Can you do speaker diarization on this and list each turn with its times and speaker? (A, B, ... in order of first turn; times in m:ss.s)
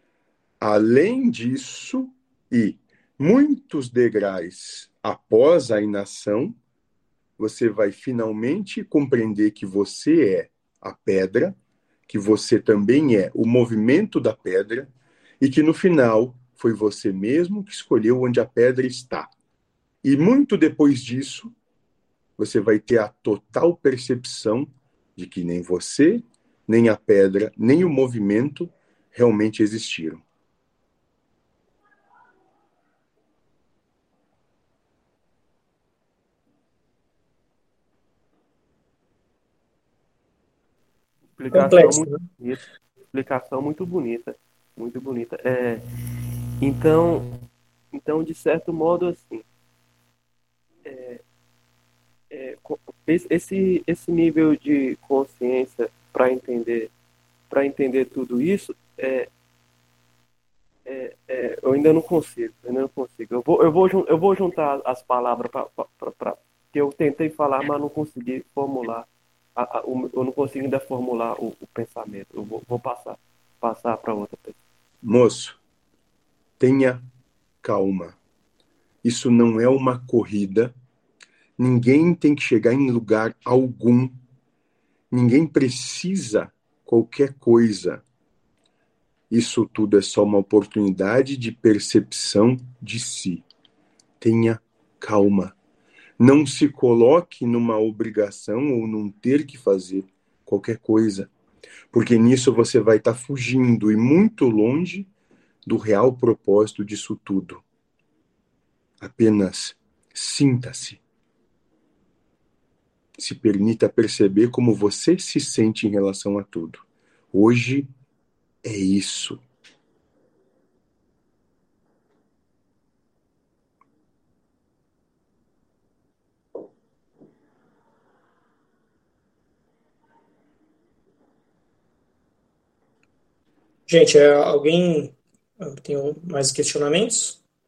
0:00.6-0:06.5 A
0:07.4-0:11.5 A
0:12.1-0:19.3 A
0:20.0-0:21.5 A
0:22.4-0:30.2 A
0:41.3-0:45.8 B
0:41.5-0:42.2 C
0:46.6-0:47.3 B
0:47.9-0:49.4 B
0:50.8-0:51.2 B
0:52.3-0:56.9 B
0:57.5-0:59.3 B
1:00.8-1:14.6 B
1:15.0-1:15.6 A
1:16.6-1:17.0 A
1:17.6-1:18.2 A
1:19.0-1:20.7 A
1:21.6-1:24.1 A
1:25.1-1:28.0 A
1:29.3-1:33.4 A
1:34.2-1:35.5 A
1:36.2-1:41.3 A
1:41.9-1:45.1 A
1:45.6-1:47.6 A
1:49.0-1:51.0 A
1:53.2-1:57.9 A
1:58.6-1:59.4 A
2:13.9-2:17.4 C